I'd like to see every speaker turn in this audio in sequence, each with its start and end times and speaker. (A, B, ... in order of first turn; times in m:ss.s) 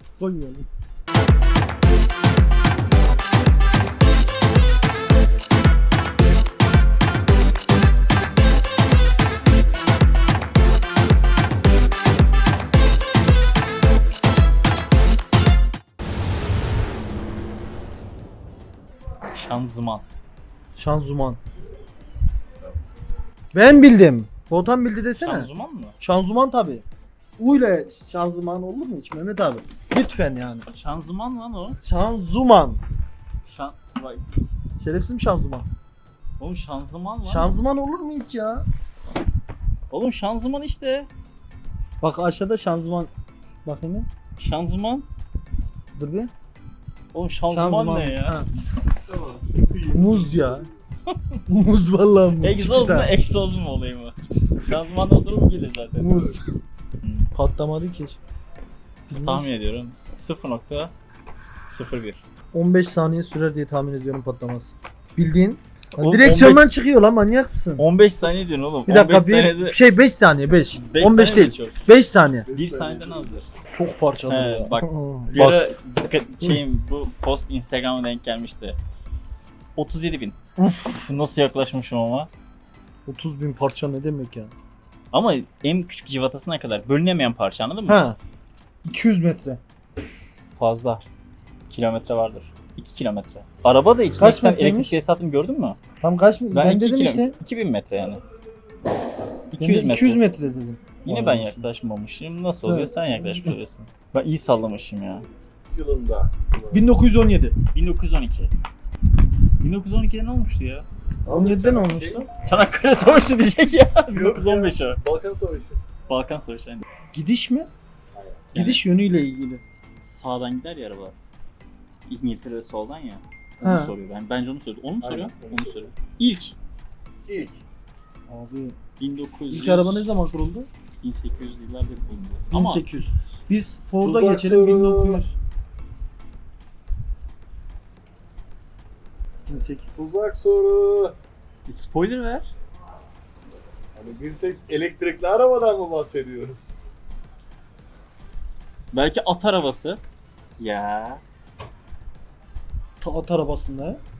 0:00.2-0:00.7 A
0:19.3-0:20.0 B
0:20.8-0:21.4 A
0:23.5-0:25.5 A
0:25.2-0:26.0 B
0:26.0-0:26.8 A
0:27.4-0:30.7 A
0:30.7-0:31.8 B
0:31.8-0:32.8 A
0:33.4-0:34.3 B
0:34.8-0:35.6 A
0:36.4-0:37.5 B
0:37.2-0:38.6 A
0:39.9-0:41.1 B
0:42.0-0:43.1 A
0:43.6-0:44.1 A
0:44.4-0:45.0 B
0:45.9-0:46.3 A
0:47.1-0:48.4 B
0:47.5-0:48.5 A
0:49.1-0:50.7 C
0:49.9-0:50.7 A
0:51.1-0:51.4 B
0:51.5-0:53.1 A
0:52.4-0:56.3 B
0:56.0-0:56.4 A
0:57.0-0:57.3 B
0:57.3-0:58.2 A
0:59.1-0:59.5 A
0:59.1-1:00.9 B
1:01.6-1:02.2 B
1:02.5-1:07.8 A
1:06.0-1:06.8 B
1:07.8-1:09.8 B
1:08.8-1:12.5 A
1:10.7-1:11.8 B
1:12.5-1:13.4 C
1:12.5-1:13.5 B
1:13.7-1:15.6 A
1:14.3-1:18.8 B
1:19.8-1:22.3 B
1:23.0-1:24.5 A
1:25.1-1:28.0 B
1:27.9-1:28.2 A
1:28.8-1:29.6 A
1:30.6-1:31.0 B
1:31.7-1:35.8 B
1:34.2-1:35.0 A
1:36.0-1:37.3 A
1:36.5-1:38.2 B
1:39.5-1:40.2 B
1:39.6-1:41.7 A
1:41.0-1:45.2 B
1:42.6-1:43.6 A
1:45.7-1:46.8 C
1:46.7-1:47.5 A
1:47.7-1:48.5 B
1:49.6-1:50.8 B
1:51.2-1:52.2 C
1:51.3-1:52.3 A
1:52.4-1:55.0 B
1:54.1-1:55.8 C
1:56.1-1:56.8 B
1:57.1-1:57.7 A
1:58.1-1:58.4 C
1:58.5-1:58.8 B
1:58.5-1:59.6 A
1:59.9-2:01.1 B
2:02.1-2:06.5 B
2:03.6-2:03.9 A
2:05.0-2:05.8 C
2:07.3-2:07.6 C
2:08.3-2:08.8 A
2:09.0-2:10.1 B
2:09.5-2:10.7 A
2:11.0-2:12.8 B
2:12.5-2:15.3 A
2:14.0-2:15.2 C
2:19.5-2:19.9 A
2:20.0-2:21.2 C
2:21.6-2:22.5 B
2:23.9-2:26.8 C
2:28.9-2:30.0 B
2:30.6-2:31.2 B
2:33.0-2:34.0 A